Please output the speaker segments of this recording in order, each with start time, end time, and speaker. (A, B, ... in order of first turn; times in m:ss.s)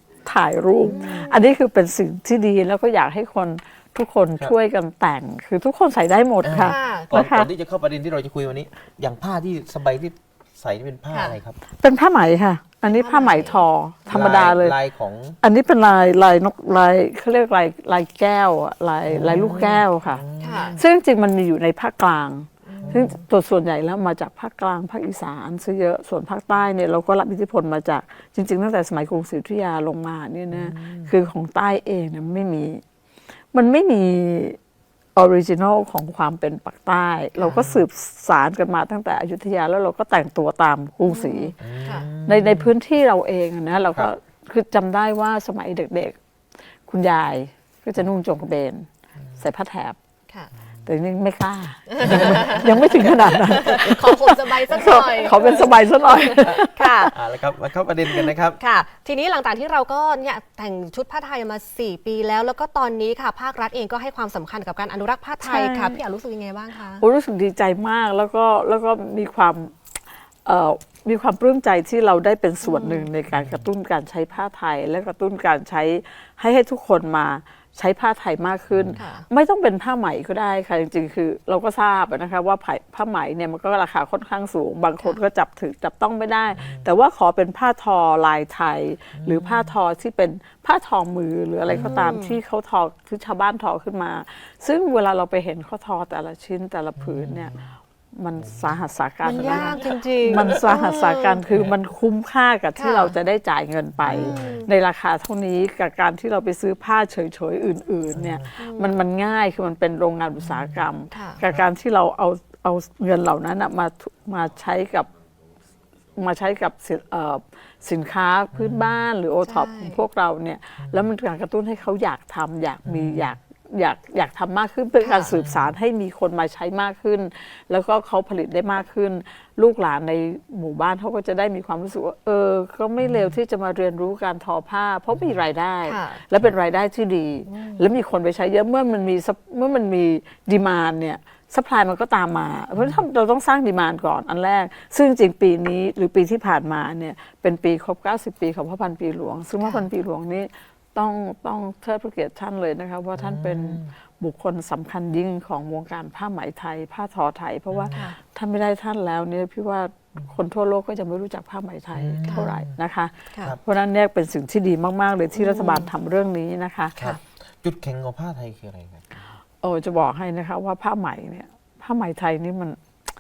0:00.2-0:07.5 A
0:00.8-0:01.5 B
0:06.4-0:11.6 C
0:06.6-0:07.2 B
0:11.1-0:11.4 B
0:11.8-0:14.8 A
0:12.9-0:13.6 B
0:14.1-0:15.4 C
0:15.4-0:20.2 A
0:19.1-0:20.8 C
0:20.4-0:20.8 B
0:20.8-0:32.8 A
0:22.7-0:23.2 B
0:22.8-0:23.2 C
0:30.5-0:31.1 C
0:33.5-0:34.6 A
0:35.2-0:41.6 A
0:37.4-0:37.6 B
0:37.5-0:37.8 C
0:41.1-0:42.1 B
0:41.6-0:42.7 C
0:42.2-0:46.2 A
0:46.9-0:48.9 A
0:49.4-0:50.0 A
0:50.8-0:57.1 A
0:52.0-0:52.7 B
0:52.0-0:52.8 C
0:53.5-0:57.1 B
0:57.1-0:58.6 C
0:58.1-1:07.0 B
1:05.4-1:06.0 A
1:07.0-1:09.8 A
1:10.4-1:37.5 A
1:12.6-1:13.1 B
1:13.3-1:13.6 C
1:18.7-1:19.0 C
1:19.0-1:19.3 B
1:26.5-1:26.9 C
1:29.1-1:29.8 C
1:31.7-1:32.1 C
1:31.8-1:32.4 B
1:37.0-1:37.8 C
1:38.2-1:55.1 A
1:38.4-1:38.8 C
1:39.2-1:41.4 B
1:39.4-1:39.8 C
1:41.5-1:41.8 C
1:42.8-1:43.1 B
1:44.0-1:44.6 C
1:44.1-1:44.7 B
1:48.2-1:48.5 C
1:48.6-1:49.0 B
1:50.4-1:50.8 C
1:51.1-1:51.4 B
1:56.2-2:47.0 A
1:58.5-1:59.0 C
1:59.4-2:00.0 B
2:00.8-2:01.1 C
2:02.8-2:03.4 C
2:05.0-2:05.3 B
2:05.3-2:05.8 C
2:13.0-2:13.3 C
2:15.1-2:15.4 C
2:15.8-2:16.2 B
2:17.5-2:17.8 B
2:22.8-2:23.0 C
2:29.6-2:29.9 B
2:33.2-2:33.9 C
2:37.7-2:38.1 C
2:37.9-2:38.2 B
2:42.0-2:42.8 C
2:45.4-2:45.9 B
2:47.0-2:49.2 C
2:49.6-2:52.8 A